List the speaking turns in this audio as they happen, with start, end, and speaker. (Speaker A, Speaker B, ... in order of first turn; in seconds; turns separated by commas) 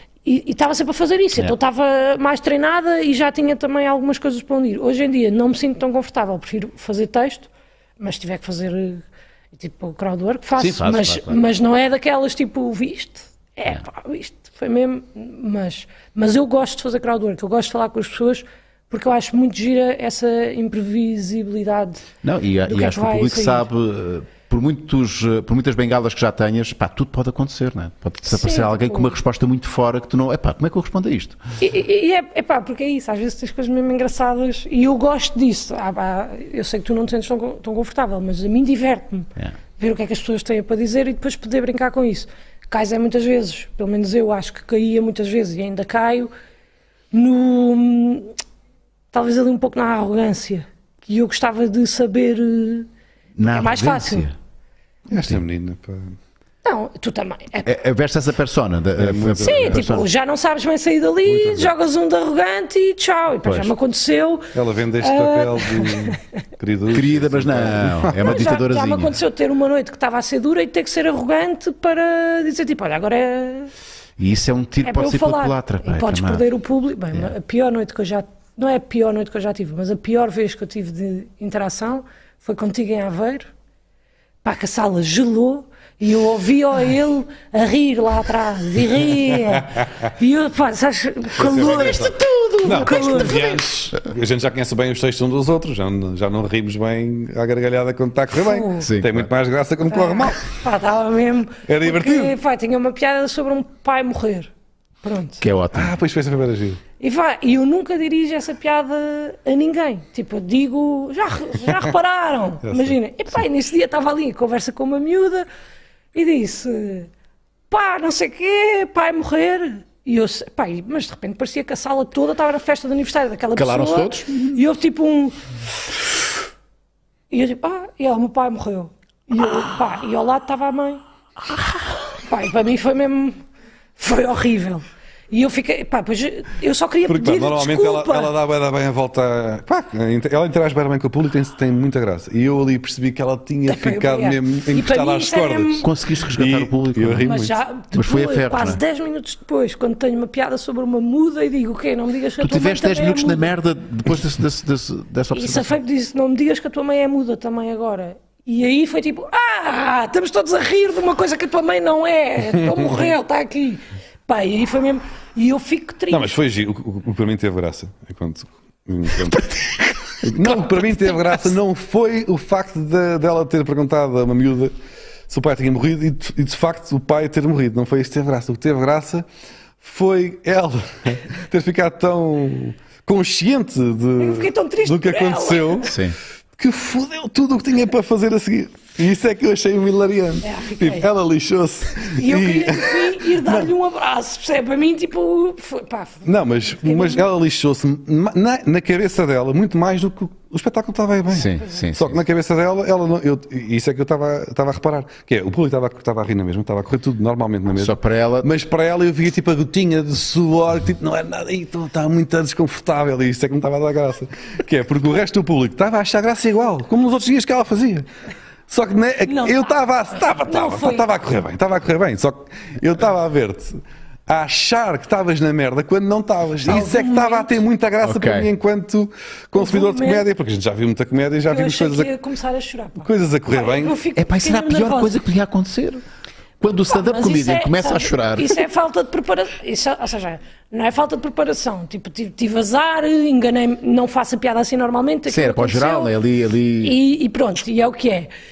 Speaker A: 0.2-22.0, Speaker B: 10.6-11.4, Speaker B: 22.2-31.4, Speaker A: 22.7-23.7, Speaker A: 28.3-29.1, Speaker A: 31.6-46.3, Speaker A: 47.1-48.3, Speaker A: 49.1-52.9, Speaker B: 53.4-54.4, Speaker A: 53.4-54.3, Speaker C: 55.1-56.2, Speaker A: 56.6-57.8, Speaker B: 57.6-60.1, Speaker C: 59.0-60.0, Speaker A: 59.4-66.2, Speaker C: 61.3-61.7, Speaker B: 63.4-63.7, Speaker C: 64.5-68.4, Speaker B: 66.9-69.1, Speaker A: 68.2-73.7, Speaker B: 74.2-76.5, Speaker A: 74.8-83.5, Speaker A: 84.4-92.1, Speaker C: 89.5-90.0, Speaker C: 91.3-100.5, Speaker B: 91.4-93.6, Speaker A: 92.8-93.5, Speaker A: 98.4-98.9, Speaker B: 98.8-99.3, Speaker A: 99.9-104.5, Speaker C: 101.7-102.3, Speaker A: 105.0-105.5, Speaker B: 105.4-106.0, Speaker C: 105.7-106.8, Speaker A: 107.0-115.5, Speaker C: 112.7-113.0, Speaker A: 116.1-117.1, Speaker A: 117.7-125.4, Speaker B: 123.5-124.6, Speaker A: 127.3-131.0, Speaker A: 132.2-133.4, Speaker A: 134.0-138.3, Speaker C: 137.1-147.5, Speaker A: 143.7-145.9, Speaker B: 145.8-147.4, Speaker A: 147.2-153.5, Speaker B: 147.9-148.8, Speaker B: 152.4-155.8, Speaker A: 155.3-166.4, Speaker C: 162.6-163.0, Speaker C: 166.1-169.6, Speaker C: 170.2-174.7, Speaker A: 170.4-171.5, Speaker C: 175.3-179.2, Speaker C: 179.8-186.0, Speaker A: 184.2-185.9, Speaker B: 185.8-186.2, Speaker C: 186.6-193.7, Speaker A: 190.4-191.1, Speaker A: 192.1-197.3, Speaker C: 196.2-218.1, Speaker B: 201.3-202.2, Speaker B: 207.7-208.5, Speaker C: 218.7-232.1, Speaker A: 219.3-219.8, Speaker A: 220.4-221.1, Speaker A: 226.7-227.6, Speaker B: 228.0-228.5, Speaker A: 229.6-230.3, Speaker A: 231.5-235.2, Speaker C: 233.0-234.0, Speaker B: 234.2-236.0, Speaker B: 236.6-238.7, Speaker A: 236.9-246.1, Speaker B: 245.3-247.0, Speaker A: 246.8-248.3